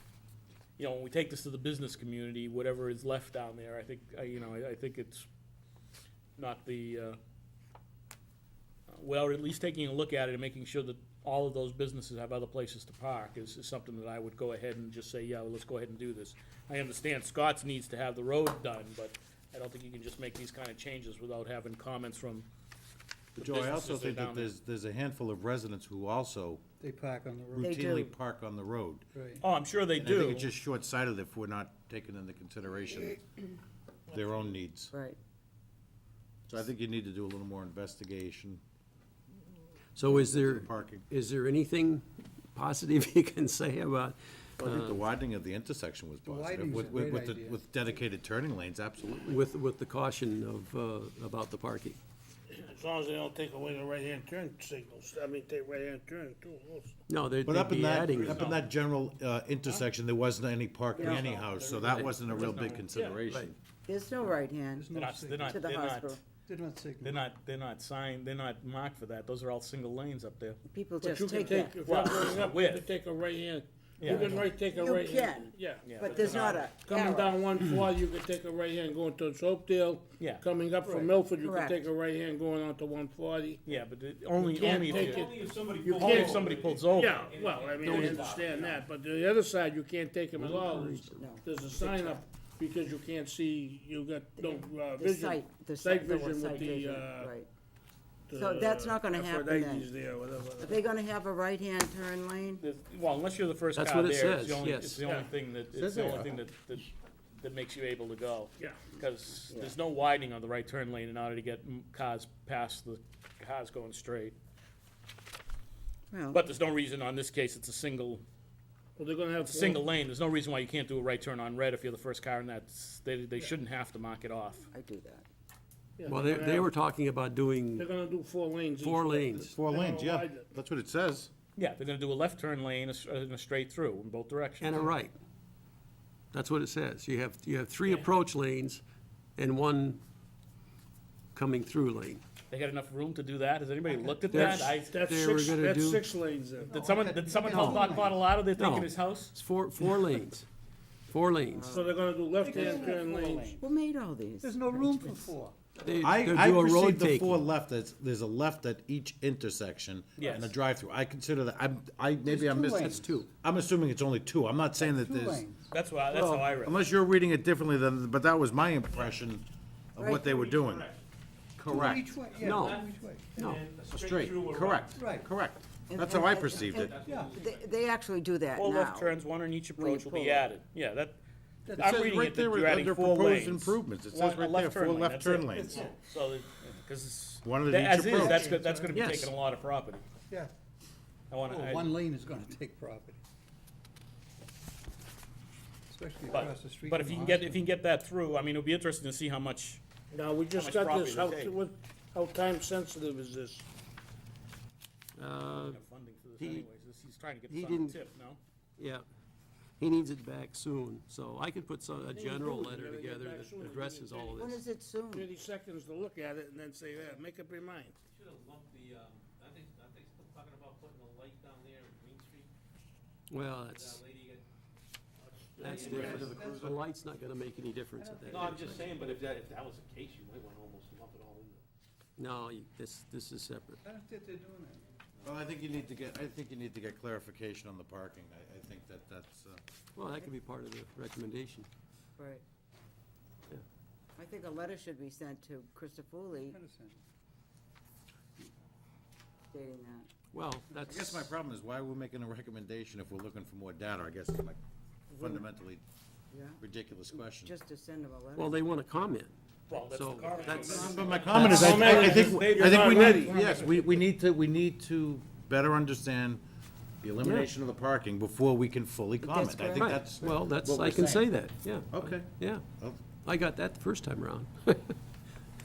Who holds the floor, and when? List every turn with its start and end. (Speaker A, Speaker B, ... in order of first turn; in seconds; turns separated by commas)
Speaker A: 0.8-5.3, Speaker A: 6.4-7.2, Speaker A: 8.9-22.5, Speaker B: 23.4-26.6, Speaker A: 23.4-24.5, Speaker C: 26.8-27.7, Speaker B: 27.6-29.1, Speaker D: 27.6-28.1, Speaker C: 29.1-29.4, Speaker A: 29.4-30.5, Speaker B: 29.9-33.2, Speaker B: 34.1-34.9, Speaker D: 34.9-35.2, Speaker B: 36.5-38.6, Speaker E: 40.0-42.0, Speaker B: 40.0-41.1, Speaker E: 42.5-45.1, Speaker B: 44.6-49.4, Speaker C: 46.3-47.6, Speaker E: 49.2-52.0, Speaker F: 52.5-57.0, Speaker E: 57.1-58.4, Speaker B: 57.4-63.6, Speaker A: 58.2-58.6, Speaker D: 61.0-61.6, Speaker E: 61.0-62.2, Speaker A: 62.2-62.9, Speaker F: 62.9-63.2, Speaker D: 63.9-64.9, Speaker C: 64.7-65.7, Speaker A: 64.9-66.2, Speaker D: 65.5-66.2, Speaker C: 66.5-67.2, Speaker A: 67.0-70.6, Speaker D: 70.7-72.2, Speaker F: 71.0-83.6, Speaker A: 71.4-72.9, Speaker A: 74.0-74.4, Speaker C: 74.0-74.3, Speaker D: 74.0-77.4, Speaker A: 75.8-76.7, Speaker G: 76.0-76.4, Speaker A: 80.2-80.4, Speaker D: 81.4-81.8, Speaker A: 83.6-85.3, Speaker F: 84.4-97.3, Speaker G: 84.8-88.8, Speaker A: 85.9-87.3, Speaker E: 87.8-88.3, Speaker E: 90.4-91.2, Speaker D: 91.1-92.2, Speaker D: 94.4-97.5, Speaker F: 98.3-100.8, Speaker D: 98.3-99.9, Speaker D: 100.6-102.6, Speaker A: 102.6-114.4, Speaker E: 103.7-105.0, Speaker F: 105.0-105.3, Speaker B: 105.8-106.3, Speaker D: 109.5-109.7, Speaker D: 116.1-116.4, Speaker A: 116.3-118.2, Speaker F: 119.0-119.8, Speaker A: 119.4-124.7, Speaker D: 124.7-125.2, Speaker F: 126.0-126.7, Speaker E: 126.1-127.9, Speaker F: 127.8-130.5, Speaker E: 128.8-129.6, Speaker B: 129.3-131.3, Speaker A: 131.6-134.9, Speaker E: 134.6-135.2, Speaker E: 136.3-138.8, Speaker E: 139.4-140.0, Speaker E: 141.3-142.2, Speaker A: 142.5-144.9, Speaker E: 144.3-146.0, Speaker F: 144.4-146.8, Speaker C: 146.6-148.2, Speaker A: 146.7-149.3, Speaker E: 147.6-147.8, Speaker E: 148.6-150.5, Speaker E: 151.1-151.7, Speaker D: 151.5-153.0, Speaker F: 151.7-153.6, Speaker C: 152.4-153.7, Speaker D: 153.6-155.3, Speaker C: 154.4-155.5, Speaker E: 155.8-157.4, Speaker B: 156.0-165.4, Speaker A: 160.2-160.5, Speaker C: 162.2-163.1, Speaker E: 162.8-163.3, Speaker C: 164.8-165.7, Speaker A: 165.7-166.8, Speaker E: 166.1-166.5, Speaker B: 166.6-170.9, Speaker D: 170.0-170.4, Speaker G: 170.2-171.0, Speaker B: 171.6-172.1, Speaker C: 171.7-173.6, Speaker G: 172.2-174.9, Speaker E: 172.4-173.6, Speaker B: 173.9-177.0, Speaker C: 174.9-175.3, Speaker D: 175.9-179.2, Speaker G: 176.4-177.8, Speaker C: 177.0-177.4, Speaker A: 178.5-181.2, Speaker D: 179.8-180.5, Speaker C: 181.7-181.9, Speaker A: 181.8-190.0, Speaker B: 181.8-185.8, Speaker C: 185.5-185.9, Speaker B: 187.4-188.5, Speaker C: 188.1-189.1, Speaker E: 188.9-189.3, Speaker A: 191.3-192.0, Speaker C: 191.4-193.2, Speaker C: 195.9-197.7, Speaker A: 196.3-199.8, Speaker F: 200.1-203.7, Speaker A: 200.5-201.6, Speaker E: 205.2-205.8, Speaker A: 205.7-208.4, Speaker E: 206.4-206.7, Speaker E: 207.5-208.0, Speaker E: 208.8-209.0, Speaker E: 209.8-214.6, Speaker F: 212.1-214.5, Speaker D: 214.4-215.3, Speaker F: 215.1-218.0, Speaker G: 218.1-222.5, Speaker E: 223.3-224.0, Speaker G: 223.7-224.4, Speaker G: 225.6-226.8, Speaker E: 225.6-228.9, Speaker C: 225.6-226.8, Speaker C: 228.0-229.1, Speaker G: 228.3-231.6, Speaker E: 232.2-233.8, Speaker C: 233.8-234.8, Speaker B: 235.2-239.6, Speaker E: 239.9-241.7, Speaker D: 242.2-242.4, Speaker D: 244.2-246.6, Speaker C: 246.3-247.0, Speaker D: 249.5-250.1, Speaker E: 250.3-251.3, Speaker B: 250.8-254.6, Speaker D: 255.1-255.4, Speaker B: 255.1-255.8, Speaker D: 256.3-258.6, Speaker B: 256.6-257.5, Speaker E: 258.4-259.4, Speaker A: 259.7-264.1, Speaker E: 259.9-261.1, Speaker D: 260.6-262.1, Speaker B: 260.8-266.4, Speaker F: 261.3-263.4, Speaker B: 267.0-271.1, Speaker E: 267.2-267.5, Speaker D: 269.2-270.0, Speaker E: 269.7-272.6, Speaker D: 270.9-271.2, Speaker B: 271.9-273.1, Speaker E: 273.2-275.0